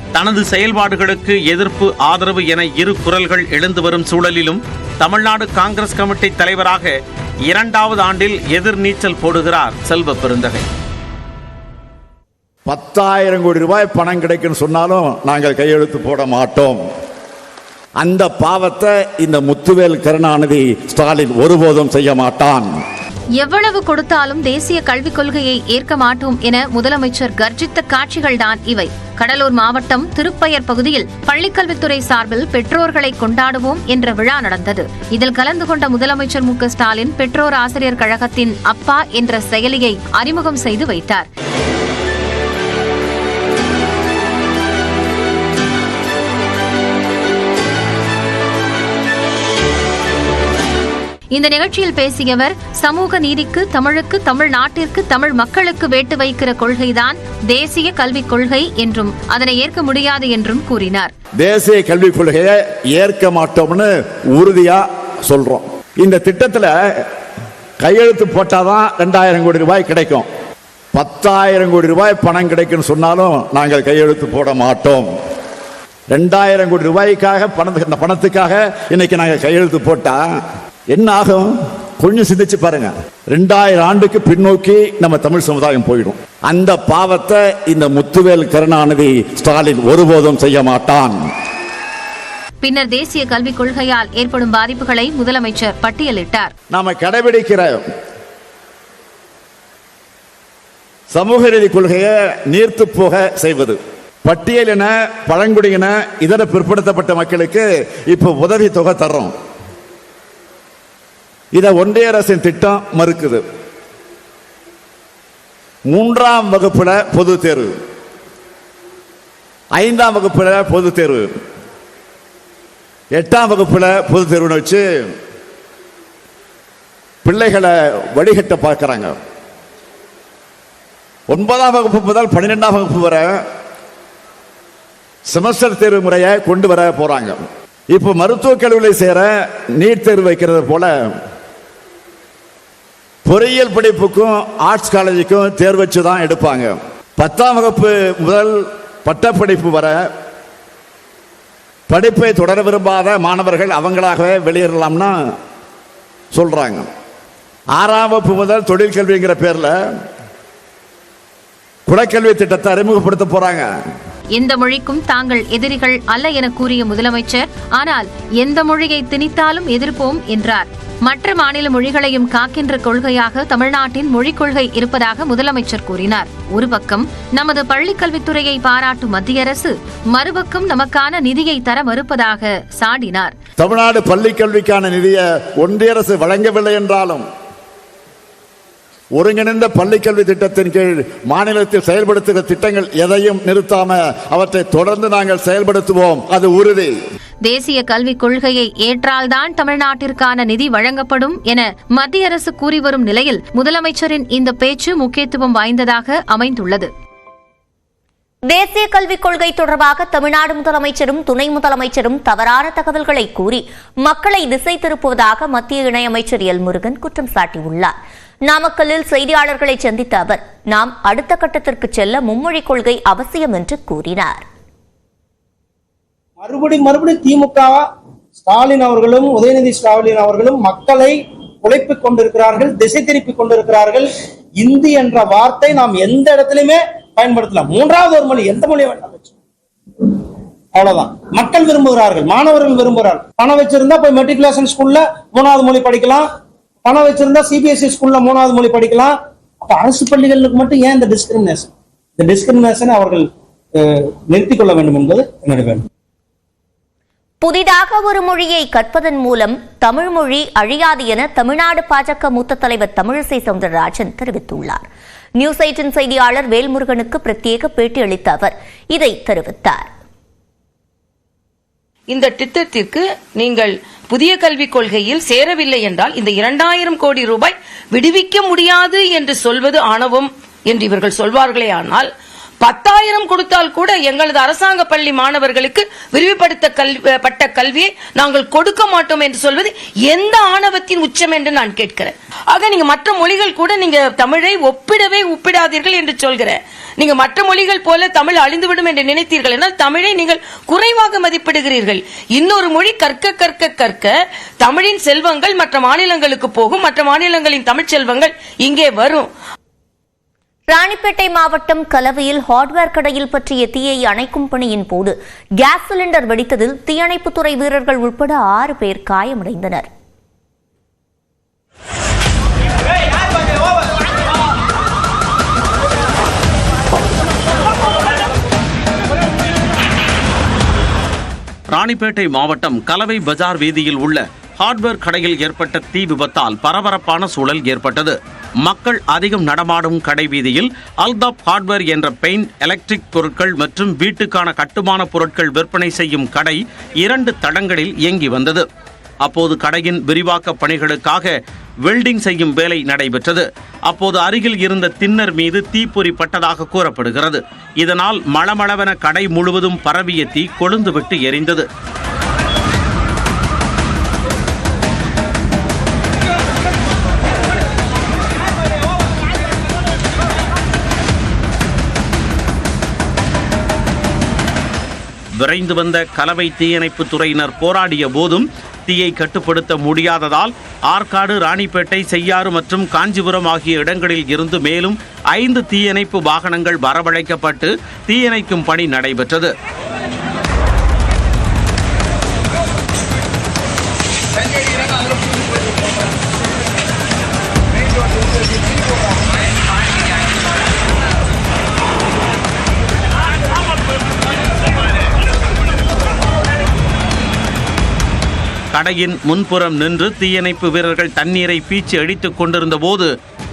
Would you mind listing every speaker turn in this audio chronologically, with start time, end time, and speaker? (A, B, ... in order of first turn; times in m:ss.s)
0:00.2-0:07.0 A
0:07.5-0:10.7 A
0:12.7-0:16.8 B
0:18.0-0:22.7 B
0:23.4-0:41.3 C
0:51.3-1:01.1 C
1:01.4-1:07.0 B
1:07.8-1:10.3 B
1:11.0-1:15.1 B
1:16.1-1:20.4 B
1:20.9-1:31.2 B
1:32.6-1:36.5 C
1:36.7-1:37.8 B
1:41.1-1:49.3 B
1:51.6-1:53.4 B
1:55.9-1:57.7 B
1:59.8-2:01.3 B
2:03.2-2:05.1 B
2:07.2-2:09.2 B
2:11.3-2:13.4 B
2:15.3-2:17.4 B
2:17.9-2:20.9 B
2:23.3-2:30.1 B
2:31.9-2:35.2 B
2:36.3-2:36.9 B
2:37.8-2:39.8 B
2:41.9-2:43.7 B
2:44.4-3:03.3 C
3:03.6-3:07.2 B
3:09.2-3:17.0 B
3:17.4-3:26.9 C
3:28.5-3:37.9 D
3:38.5-3:44.5 D
3:46.4-3:47.8 E
3:48.4-3:54.1 E
3:54.6-3:59.3 E
4:00.7-4:06.3 E
4:06.8-4:13.3 E
4:13.8-4:15.8 E
4:17.4-4:24.9 D
4:25.4-4:29.9 D
4:32.1-4:42.1 F
4:42.6-5:09.3 F
5:10.7-5:19.9 D
5:31.7-5:48.6 A
5:49.2-5:51.3 A
5:51.8-6:01.7 A
6:15.4-6:29.5 A
6:48.7-6:53.1 A